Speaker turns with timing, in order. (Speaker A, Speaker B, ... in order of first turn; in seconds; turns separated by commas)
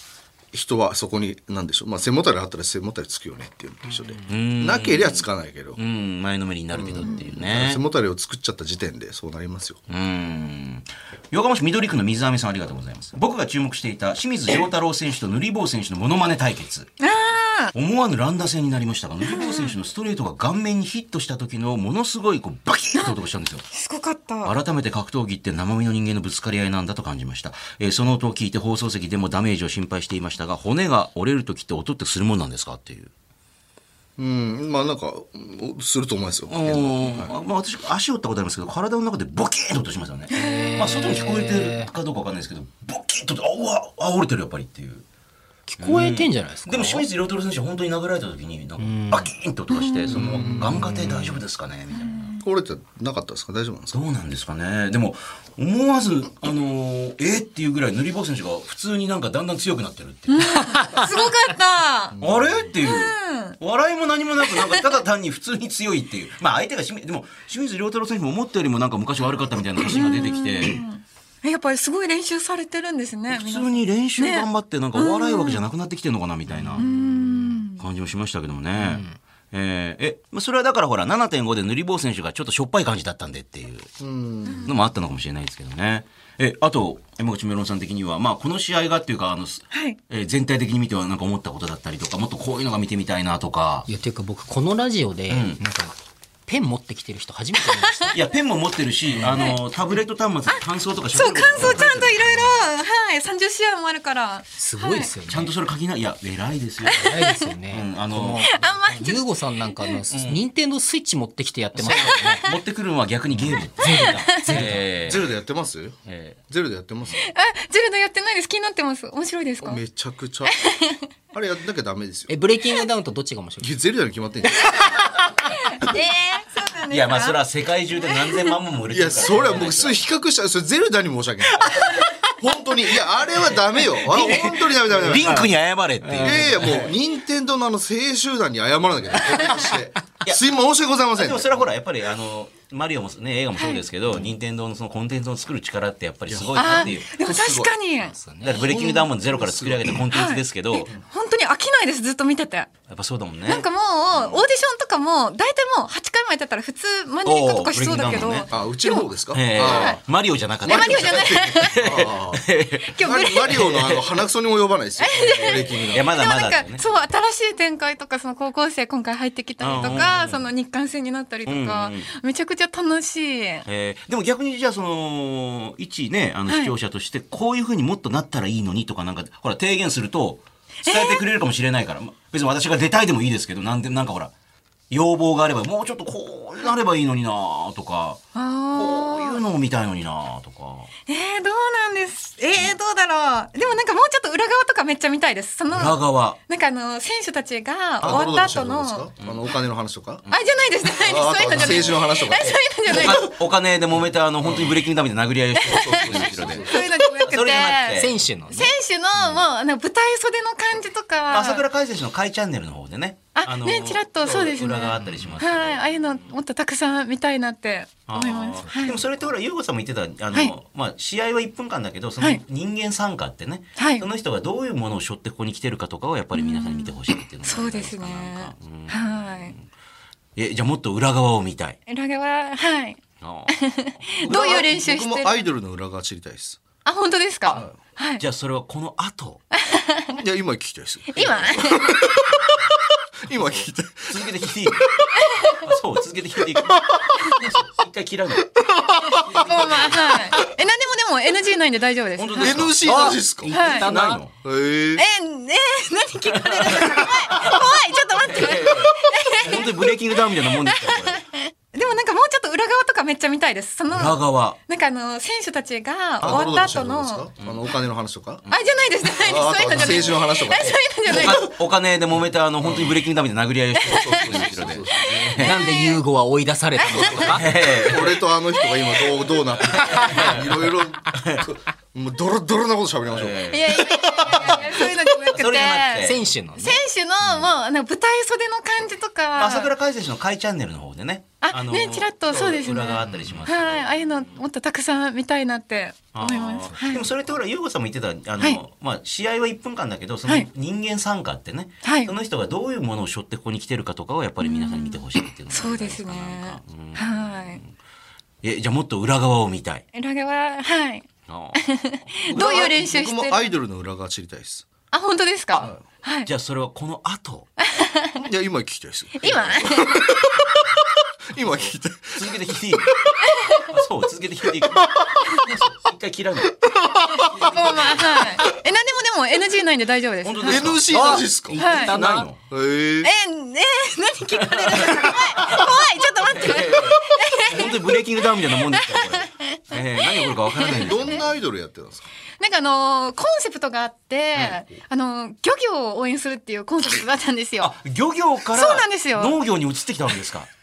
Speaker A: 0.5-5.8, Speaker B: 4.3-7.8, Speaker A: 6.7-9.8, Speaker B: 9.9-16.9, Speaker C: 17.0-17.7, Speaker B: 17.7-23.6, Speaker C: 19.2-19.8, Speaker C: 23.7-24.5, Speaker B: 24.4-33.1, Speaker A: 34.2-37.3, Speaker B: 36.5-45.0, Speaker C: 40.3-40.9, Speaker D: 40.3-41.9, Speaker D: 45.7-47.1, Speaker B: 45.8-52.3, Speaker D: 48.8-49.3, Speaker C: 49.7-50.1, Speaker D: 50.1-51.4, Speaker A: 50.1-50.7, Speaker C: 51.9-52.4, Speaker A: 52.4-54.0, Speaker B: 53.9-61.0, Speaker C: 60.3-62.1, Speaker D: 60.7-61.0, Speaker A: 62.1-62.7, Speaker B: 62.2-70.8, Speaker C: 62.8-63.6, Speaker C: 64.5-64.9, Speaker C: 69.9-75.6, Speaker B: 73.3-76.9, Speaker D: 76.5-77.6, Speaker C: 76.8-77.8, Speaker B: 77.8-83.9, Speaker D: 78.8-79.2, Speaker A: 84.0-84.7, Speaker C: 84.4-84.7, Speaker B: 84.6-93.9, Speaker C: 89.7-90.0, Speaker D: 93.9-95.9, Speaker B: 95.3-95.6, Speaker D: 96.5-98.2, Speaker C: 97.6-98.2, Speaker B: 98.1-102.7, Speaker D: 99.2-99.4, Speaker C: 99.2-99.6, Speaker C: 100.5-105.1, Speaker D: 104.6-105.5, Speaker B: 105.3-107.0, Speaker C: 106.8-107.5, Speaker D: 106.9-112.4, Speaker B: 107.7-108.5, Speaker C: 108.5-109.9, Speaker B: 110.1-110.4, Speaker B: 111.7-115.3, Speaker C: 111.9-112.6, Speaker D: 113.5-114.8, Speaker C: 113.8-114.6, Speaker A: 114.6-116.0, Speaker B: 116.0-116.4, Speaker A: 116.5-117.3, Speaker C: 117.2-119.8, Speaker A: 119.6-120.6, Speaker C: 120.5-121.0, Speaker A: 121.3-122.3, Speaker D: 122.3-123.7, Speaker A: 123.6-125.1, Speaker D: 124.6-125.1, Speaker C: 125.5-127.4, Speaker B: 126.9-130.1, Speaker C: 128.0-128.6, Speaker A: 128.9-135.5, Speaker B: 133.4-136.9, Speaker D: 134.3-136.9, Speaker A: 136.2-141.6, Speaker B: 141.1-147.1, Speaker C: 143.6-143.8, Speaker A: 146.3-147.7, Speaker C: 146.5-148.2, Speaker D: 148.0-148.7, Speaker B: 148.4-150.9, Speaker C: 148.7-149.0, Speaker A: 148.8-150.0, Speaker C: 150.1-152.7, Speaker B: 152.9-154.4, Speaker C: 153.5-160.0, Speaker B: 157.2-158.5, Speaker A: 158.5-160.0, Speaker B: 159.3-164.1, Speaker A: 160.6-166.1, Speaker C: 160.6-161.9, Speaker C: 162.9-163.7, Speaker C: 165.0-173.6, Speaker B: 165.2-166.9, Speaker B: 169.6-170.5, Speaker A: 169.8-170.1, Speaker B: 171.4-172.1, Speaker B: 173.7-184.3, Speaker C: 176.5-176.7, Speaker C: 180.8-181.2, Speaker B: 184.9-188.2, Speaker C: 188.3-189.4, Speaker B: 188.7-190.9, Speaker C: 191.1-199.1, Speaker B: 195.7-196.4, Speaker B: 198.0-198.4, Speaker A: 198.0-200.2, Speaker B: 199.2-199.5, Speaker C: 200.3-203.3, Speaker A: 200.9-203.3, Speaker B: 201.5-201.9, Speaker B: 202.5-208.2, Speaker A: 204.4-204.8, Speaker C: 205.5-211.6, Speaker A: 205.6-206.9, Speaker D: 207.9-208.7, Speaker B: 211.3-216.2, Speaker C: 213.3-219.0, Speaker B: 218.1-229.7, Speaker C: 223.8-224.1, Speaker C: 226.3-229.5, Speaker B: 230.3-231.8, Speaker C: 231.9-235.4, Speaker B: 233.2-233.6, Speaker B: 234.1-234.6, Speaker A: 234.2-236.6, Speaker C: 236.8-238.2, Speaker B: 238.2-239.4, Speaker C: 239.5-240.2, Speaker A: 240.2-245.5, Speaker C: 241.1-242.0, Speaker B: 244.1-244.9, Speaker B: 245.5-248.5, Speaker A: 246.4-247.4, Speaker A: 248.6-249.4, Speaker C: 249.0-252.8, Speaker B: 249.1-250.2, Speaker B: 252.2-254.3, Speaker A: 252.4-253.5, Speaker D: 252.8-254.2, Speaker C: 253.5-253.9, Speaker A: 254.4-255.0, Speaker C: 254.9-267.3, Speaker B: 256.3-261.2, Speaker B: 263.9-264.6, Speaker B: 266.2-266.6, Speaker A: 266.2-268.4, Speaker B: 267.4-267.7, Speaker C: 268.5-271.5, Speaker A: 269.1-271.4, Speaker B: 269.7-270.1, Speaker B: 271.1-275.6, Speaker A: 272.6-273.0, Speaker C: 273.8-276.0, Speaker A: 273.8-275.4, Speaker D: 275.4-277.5, Speaker C: 276.8-278.0, Speaker A: 276.9-284.9, Speaker B: 277.2-278.2, Speaker C: 278.5-279.4, Speaker B: 279.6-281.5, Speaker B: 283.1-286.2, Speaker C: 283.5-289.7, Speaker D: 286.0-286.8, Speaker B: 289.4-293.9, Speaker C: 291.4-297.1, Speaker B: 296.1-307.7, Speaker C: 301.8-302.1, Speaker C: 304.4-307.6, Speaker B: 308.4-309.8, Speaker C: 309.9-313.5, Speaker B: 311.3-312.8, Speaker A: 312.3-314.6, Speaker C: 314.9-316.3, Speaker B: 316.2-317.5, Speaker C: 317.6-318.2, Speaker A: 318.2-323.3, Speaker C: 319.2-320.1, Speaker B: 319.2-319.7, Speaker B: 321.6-326.7, Speaker C: 323.3-323.7, Speaker A: 324.5-325.5, Speaker A: 326.6-327.5, Speaker C: 327.1-331.9, Speaker B: 327.2-328.2, Speaker B: 330.2-332.4, Speaker A: 330.4-331.6, Speaker D: 330.9-332.3, Speaker A: 332.5-333.1, Speaker C: 333.0-341.2, Speaker B: 334.3-341.3, Speaker A: 340.7-342.1, Speaker C: 342.4-347.7, Speaker B: 347.6-350.5, Speaker C: 348.5-349.4